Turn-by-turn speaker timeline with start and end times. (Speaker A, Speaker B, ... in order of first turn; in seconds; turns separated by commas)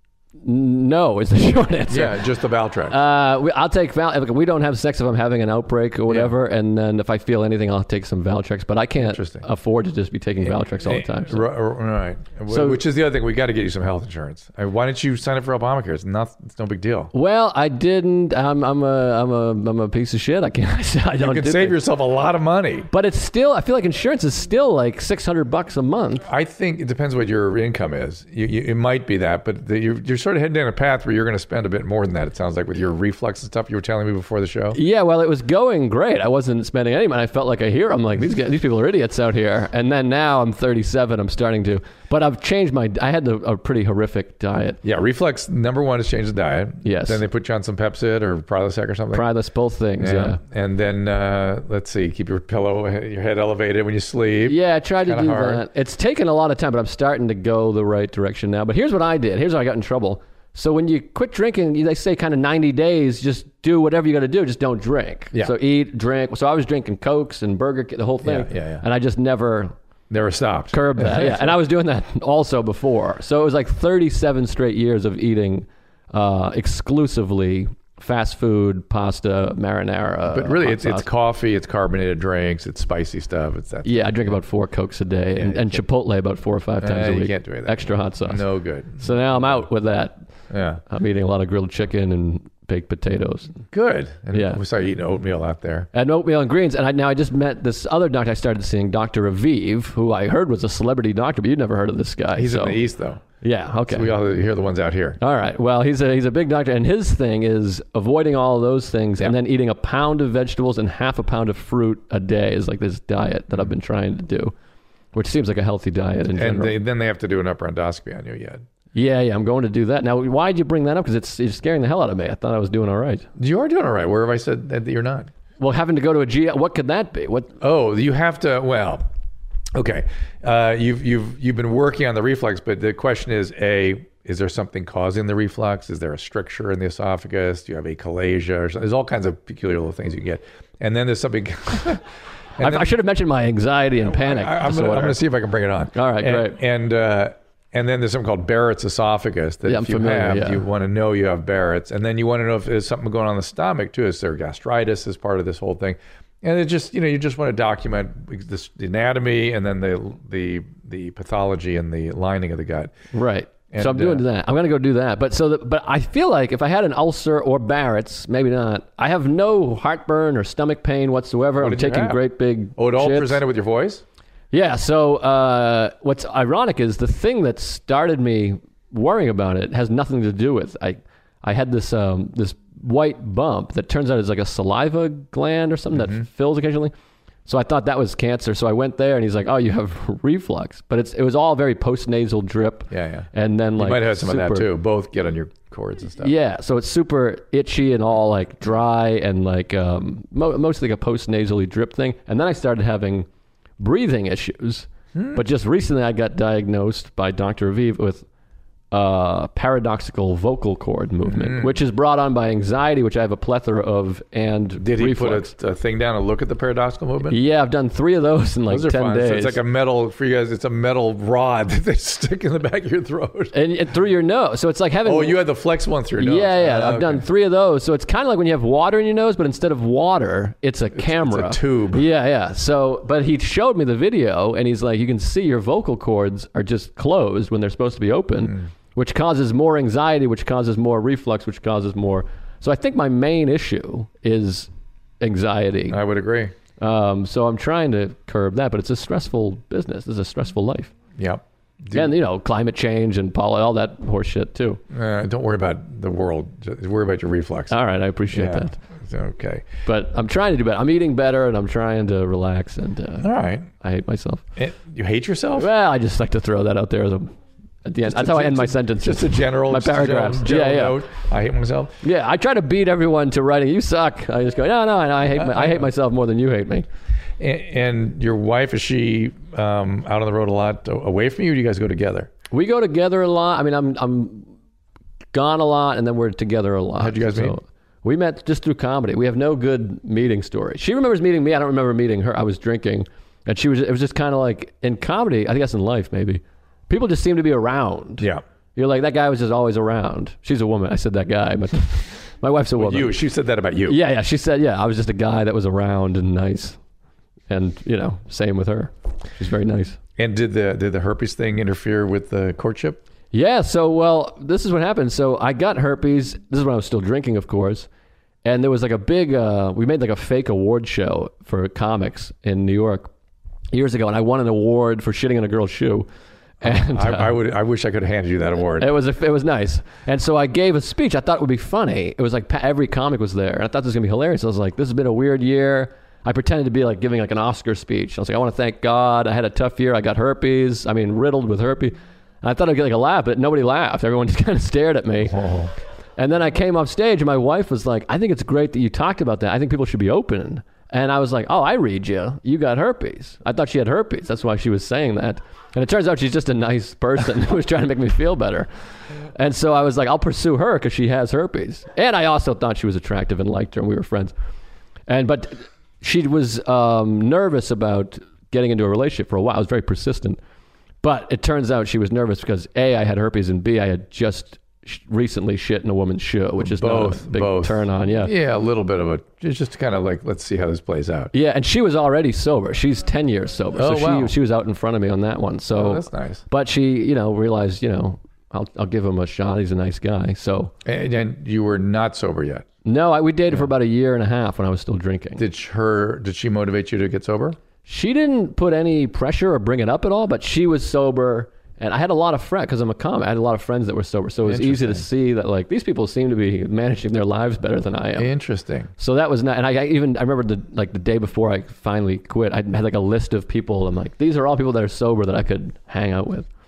Speaker A: 0.4-2.2, Speaker B: 1.9-3.0, Speaker A: 2.9-11.4, Speaker B: 9.0-9.5, Speaker B: 10.4-17.1, Speaker A: 12.5-12.8, Speaker A: 17.1-21.8, Speaker B: 21.2-22.9, Speaker A: 22.9-26.2, Speaker B: 26.2-34.8, Speaker A: 34.7-44.8, Speaker B: 44.8-49.3, Speaker A: 46.8-47.2, Speaker A: 49.1-50.4, Speaker B: 50.0-55.6, Speaker A: 54.5-69.7, Speaker B: 68.2-68.8, Speaker B: 70.1-71.6, Speaker A: 70.7-81.1, Speaker B: 80.3-84.4, Speaker A: 83.8-88.5, Speaker B: 85.4-85.8, Speaker B: 86.8-89.6, Speaker A: 89.0-90.2, Speaker B: 90.5-90.8, Speaker A: 90.9-93.6, Speaker B: 93.7-95.9, Speaker A: 94.3-94.6, Speaker A: 95.9-102.8, Speaker B: 102.3-103.2, Speaker A: 103.4-104.1, Speaker B: 103.9-105.2, Speaker A: 105.2-114.5, Speaker A: 115.1-116.8, Speaker B: 116.3-118.6, Speaker A: 118.9-123.3, Speaker B: 123.4-125.3, Speaker A: 125.6-127.6, Speaker B: 127.6-129.1, Speaker B: 129.7-142.1, Speaker B: 142.6-142.9, Speaker A: 142.6-145.2, Speaker B: 144.1-162.9, Speaker A: 145.9-146.6, Speaker A: 149.7-150.6, Speaker A: 163.1-173.4, Speaker B: 163.7-164.2, Speaker B: 171.6-172.2, Speaker B: 172.8-174.0, Speaker A: 174.5-186.9, Speaker B: 185.9-186.2, Speaker A: 187.5-194.7, Speaker B: 192.9-196.3, Speaker A: 196.2-203.3, Speaker A: 203.8-208.3, Speaker B: 205.1-205.4, Speaker A: 208.9-215.5, Speaker B: 211.2-211.8, Speaker B: 214.8-217.4, Speaker A: 217.3-219.6, Speaker B: 218.7-223.5, Speaker A: 223.5-225.4, Speaker B: 225.1-227.2, Speaker A: 226.2-246.0, Speaker B: 230.9-232.1, Speaker B: 245.9-246.5, Speaker A: 246.8-250.9, Speaker B: 251.2-252.2, Speaker A: 251.9-254.8, Speaker B: 254.9-257.8, Speaker A: 257.7-258.8, Speaker B: 258.3-259.7, Speaker A: 259.9-263.3, Speaker B: 263.2-263.7, Speaker A: 263.8-264.4, Speaker B: 264.6-265.7, Speaker A: 265.6-267.3, Speaker A: 267.9-271.0, Speaker B: 268.0-272.0, Speaker A: 272.0-276.9, Speaker B: 275.4-275.9, Speaker B: 277.4-282.3, Speaker A: 282.5-284.5, Speaker A: 285.3-303.1, Speaker B: 287.0-287.6, Speaker B: 302.8-304.0, Speaker A: 303.9-306.8, Speaker A: 307.5-310.0, Speaker B: 310.2-313.0, Speaker A: 313.3-317.9, Speaker A: 318.4-323.1, Speaker A: 323.7-326.1, Speaker B: 326.6-328.9, Speaker A: 326.6-327.4, Speaker A: 328.8-345.4, Speaker B: 345.3-345.7, Speaker A: 346.2-358.7, Speaker A: 359.3-364.3, Speaker A: 365.1-370.4, Speaker A: 371.0-378.3, Speaker B: 376.6-381.3, Speaker A: 381.3-390.7, Speaker B: 383.7-384.4, Speaker B: 385.8-386.4, Speaker B: 390.8-392.7, Speaker A: 392.9-395.4, Speaker B: 395.4-397.6, Speaker A: 397.9-408.3, Speaker B: 404.4-405.1, Speaker B: 408.2-408.9, Speaker A: 409.0-416.5